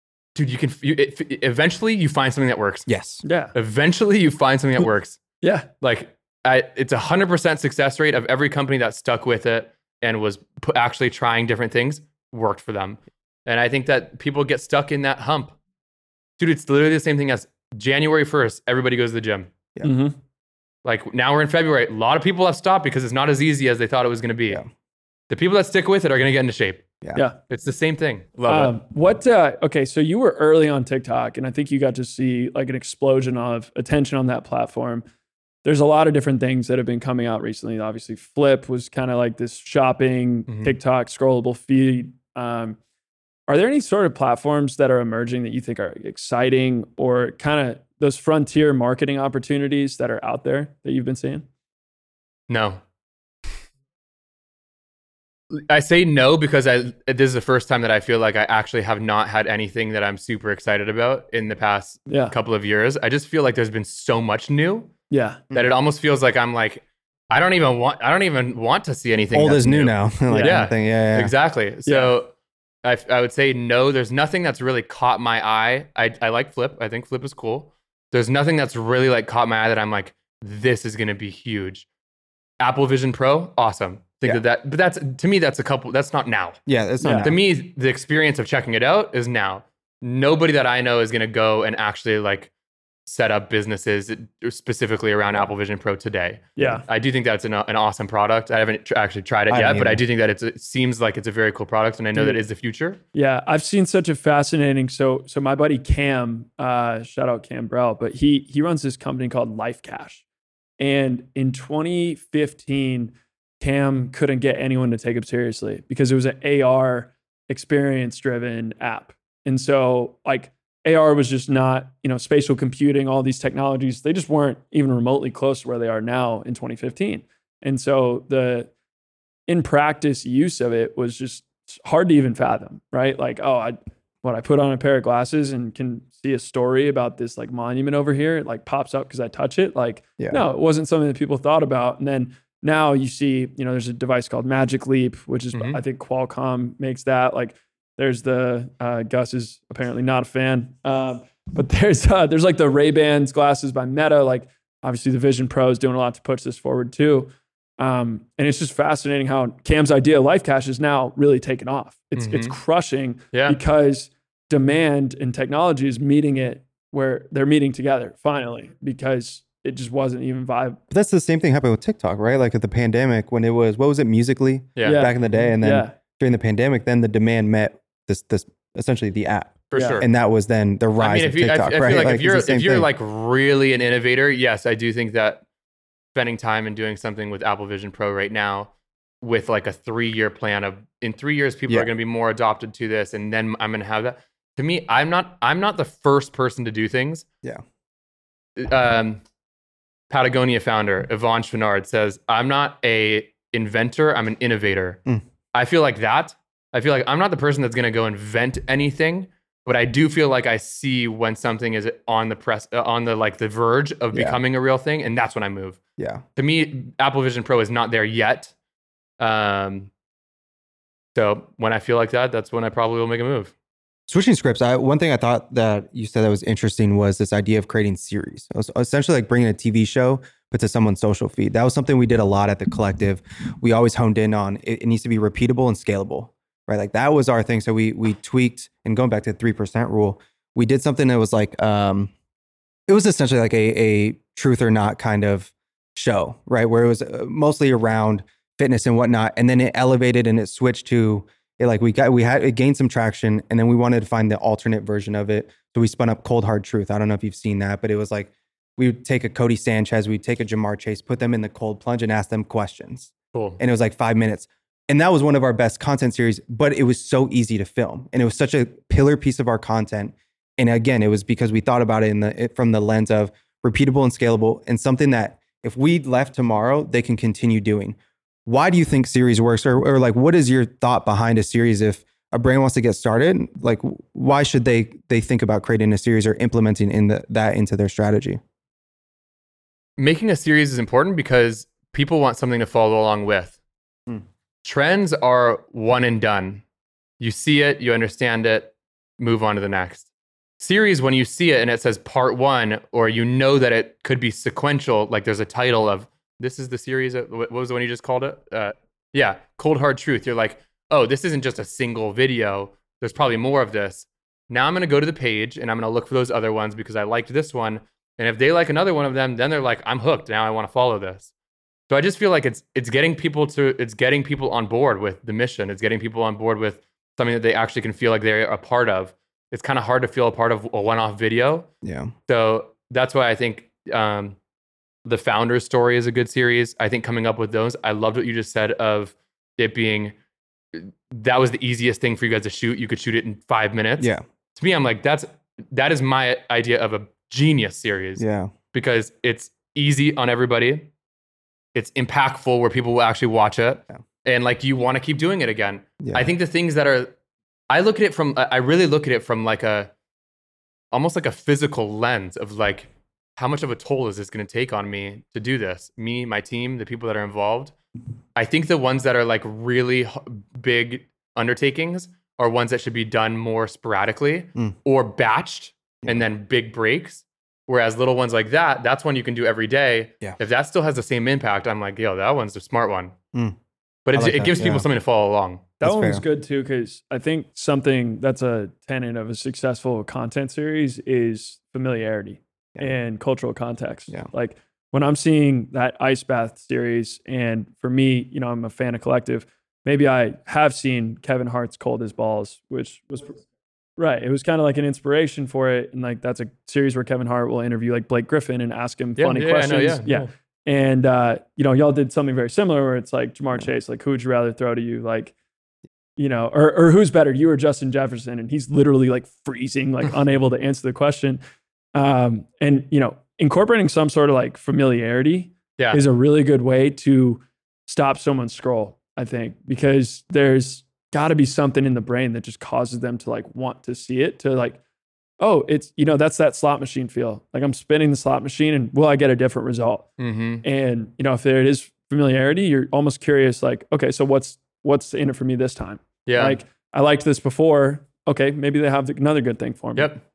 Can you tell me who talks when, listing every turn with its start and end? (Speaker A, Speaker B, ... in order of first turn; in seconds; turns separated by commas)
Speaker A: 0.3-2.9, Speaker B: 2.9-3.2, Speaker C: 3.2-3.5, Speaker A: 3.5-5.2, Speaker C: 5.4-5.7, Speaker A: 5.8-15.5, Speaker A: 16.4-19.5, Speaker C: 19.8-20.1, Speaker A: 20.8-24.6, Speaker A: 25.3-26.9, Speaker A: 27.5-28.7, Speaker C: 28.5-35.0, Speaker C: 35.6-42.8, Speaker A: 40.5-40.7, Speaker C: 43.5-51.5, Speaker A: 52.5-52.8, Speaker A: 55.5-64.9, Speaker C: 62.1-62.3, Speaker C: 65.1-65.4, Speaker A: 65.5-72.3, Speaker B: 69.3-71.3, Speaker C: 70.3-70.6, Speaker C: 71.9-72.1, Speaker A: 72.8-81.9, Speaker A: 82.6-86.6, Speaker B: 86.7-87.4, Speaker C: 87.0-87.3, Speaker A: 87.2-92.5, Speaker A: 93.0-103.0, Speaker C: 96.5-96.8, Speaker B: 99.5-100.0, Speaker C: 102.1-102.4, Speaker C: 103.1-110.2, Speaker C: 110.8-128.7, Speaker C: 129.5-170.8, Speaker A: 145.5-145.8, Speaker A: 162.2-162.5, Speaker A: 163.3-163.6, Speaker B: 170.9-182.9, Speaker A: 174.8-175.1, Speaker C: 174.8-175.9, Speaker A: 179.7-180.1, Speaker C: 179.8-180.0, Speaker A: 181.0-185.4, Speaker A: 186.1-188.7, Speaker A: 189.2-197.2, Speaker A: 198.6-199.2, Speaker A: 200.1-205.0, Speaker A: 205.5-215.8, Speaker B: 214.1-214.4, Speaker B: 216.0-216.2, Speaker A: 216.4-218.5, Speaker A: 219.2-219.9, Speaker A: 221.1-223.5, Speaker B: 224.1-242.1, Speaker B: 242.9-288.4, Speaker A: 263.3-263.6, Speaker A: 290.0-293.6, Speaker A: 294.6-296.6, Speaker A: 297.2-300.1, Speaker A: 300.6-321.3, Speaker A: 321.9-331.7, Speaker B: 331.8-332.1, Speaker A: 332.3-334.4, Speaker A: 335.0-340.1, Speaker A: 340.7-350.9, Speaker B: 348.2-348.5, Speaker A: 351.7-357.1, Speaker B: 356.0-356.3, Speaker A: 357.7-359.9, Speaker A: 360.9-367.7, Speaker A: 368.4-383.1, Speaker A: 384.1-385.7, Speaker B: 384.1-384.8, Speaker C: 385.8-403.4, Speaker B: 385.8-386.2, Speaker C: 404.0-415.3, Speaker A: 409.2-410.3, Speaker C: 416.2-421.4, Speaker C: 421.9-434.8, Speaker C: 435.4-440.1, Speaker A: 440.2-440.6, Speaker C: 440.6-450.2, Speaker A: 446.2-446.6